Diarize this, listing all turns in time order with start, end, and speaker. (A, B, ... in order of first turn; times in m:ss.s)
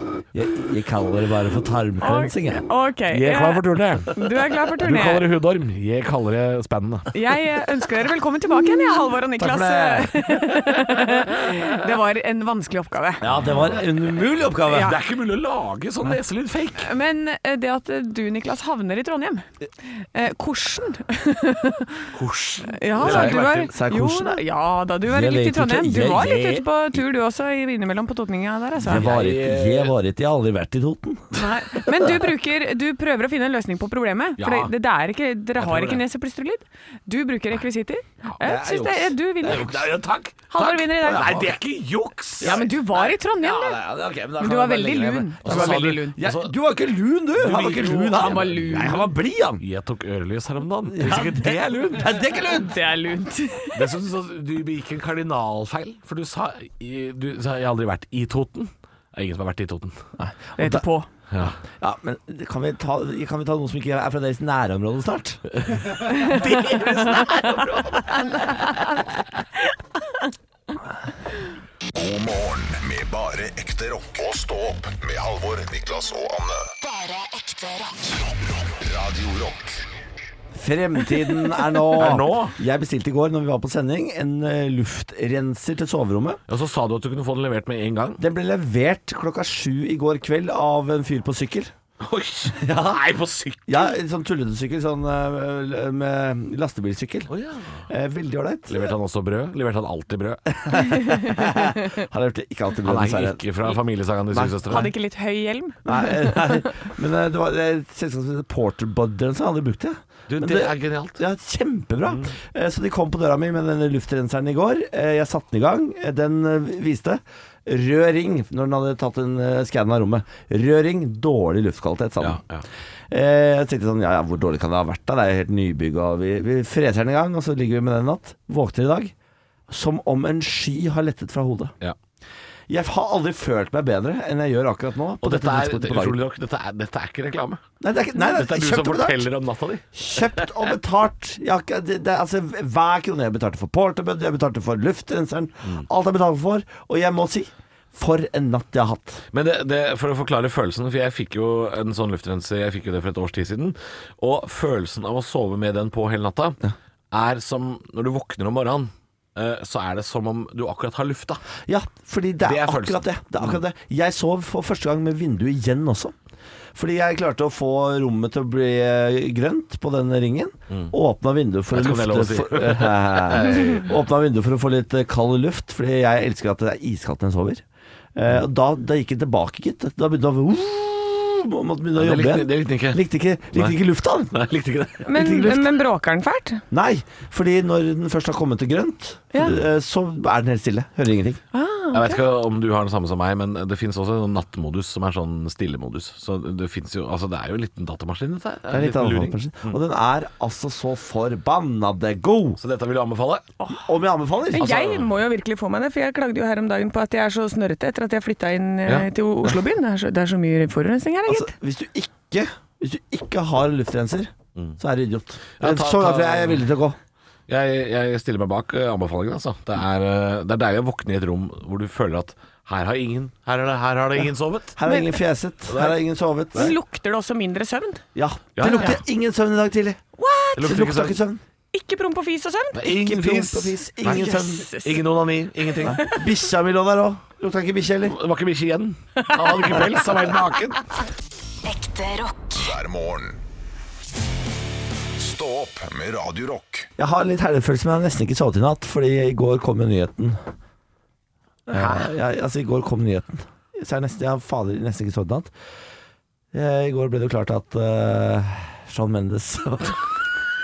0:00.3-0:02.7 A
0:02.0-0:05.3 B
0:03.1-0:04.2 C
0:04.8-0:07.3 C
0:07.1-0:13.2 B
0:09.4-0:10.3 A
0:13.2-0:15.0 A
0:13.2-0:13.8 C
0:14.7-0:16.9 C
0:16.8-0:19.5 B
0:20.0-0:22.1 B
0:22.1-0:23.6 C
0:22.7-0:29.1 B
0:23.0-0:24.4 A
0:25.0-0:26.7 A
0:28.8-0:32.1 A
0:28.8-0:30.0 C
0:31.3-0:39.8 B
0:34.4-0:34.7 C
0:35.6-0:36.0 C
0:38.4-0:39.6 A
0:39.4-0:42.6 C
0:40.5-0:41.5 B
0:41.1-0:41.5 A
0:42.4-0:49.6 A
0:42.4-0:43.8 B
0:44.4-0:46.2 B
0:45.4-0:46.5 C
0:47.4-0:49.0 C
0:48.1-0:49.0 B
0:49.6-0:52.2 C
0:50.9-0:52.8 A
0:52.4-0:53.9 B
0:53.7-1:00.0 C
1:00.2-1:00.8 A
1:00.6-1:01.1 B
1:01.3-1:01.6 C
1:01.8-1:07.5 A
1:06.1-1:10.3 B
1:06.2-1:08.0 C
1:12.0-1:16.7 D
1:16.8-1:18.2 E
1:18.7-1:19.8 D
1:20.5-1:26.4 A
1:21.9-1:22.6 C
1:26.5-1:28.2 C
1:28.2-1:31.7 A
1:32.0-1:33.8 C
1:32.6-1:33.0 A
1:33.7-1:37.3 A
1:37.3-1:37.8 C
1:37.9-1:38.9 A
1:38.7-1:40.6 C
1:40.6-1:43.4 A
1:41.0-1:41.3 B
1:42.8-1:44.9 C
1:44.3-1:44.9 A
1:44.7-1:46.6 B
1:45.8-2:02.4 A
1:50.3-1:51.2 C
2:02.2-2:02.6 C
2:03.1-2:09.1 A
2:09.7-2:11.8 A
2:12.7-2:16.2 A
2:15.2-2:17.6 C
2:17.8-2:19.3 A
2:18.2-2:20.5 C
2:19.9-2:29.2 A
2:29.3-2:36.6 C
2:37.1-2:41.4 C
2:41.7-2:46.1 A
2:42.4-2:43.6 C
2:46.8-2:57.6 A
2:51.7-2:53.9 C
2:58.2-3:04.4 A
3:02.0-3:03.0 C
3:04.3-3:05.1 C
3:05.0-3:06.6 B
3:05.1-3:05.7 A
3:06.7-3:11.4 A
3:09.3-3:09.6 B
3:11.5-3:12.2 B
3:11.9-3:19.8 C
3:18.7-3:22.6 A
3:22.6-3:23.5 C
3:23.6-3:23.9 B
3:23.7-3:24.8 A
3:24.5-3:31.5 B
3:24.6-3:25.1 C
3:28.9-3:29.5 C
3:31.3-3:37.0 A
3:35.6-3:36.7 C
3:37.5-3:44.8 C
3:44.8-3:46.8 A
3:45.7-3:46.0 C
3:46.5-3:48.0 B
3:48.2-3:50.0 A
3:48.6-3:49.0 C
3:50.2-3:50.8 B
3:50.6-3:51.2 C
3:50.6-3:51.4 A
3:51.7-3:53.2 B
3:52.8-3:56.0 C
3:52.8-3:54.8 A
3:54.0-3:55.0 B
3:55.8-3:58.2 A
3:55.9-3:56.2 B
3:58.1-4:00.9 C
3:59.3-4:00.0 B
4:01.6-4:02.7 E
4:02.6-4:03.4 D
4:05.2-4:06.9 D
4:07.0-4:10.4 A
4:11.7-4:15.5 A
4:11.7-4:12.1 C
4:16.5-4:20.2 A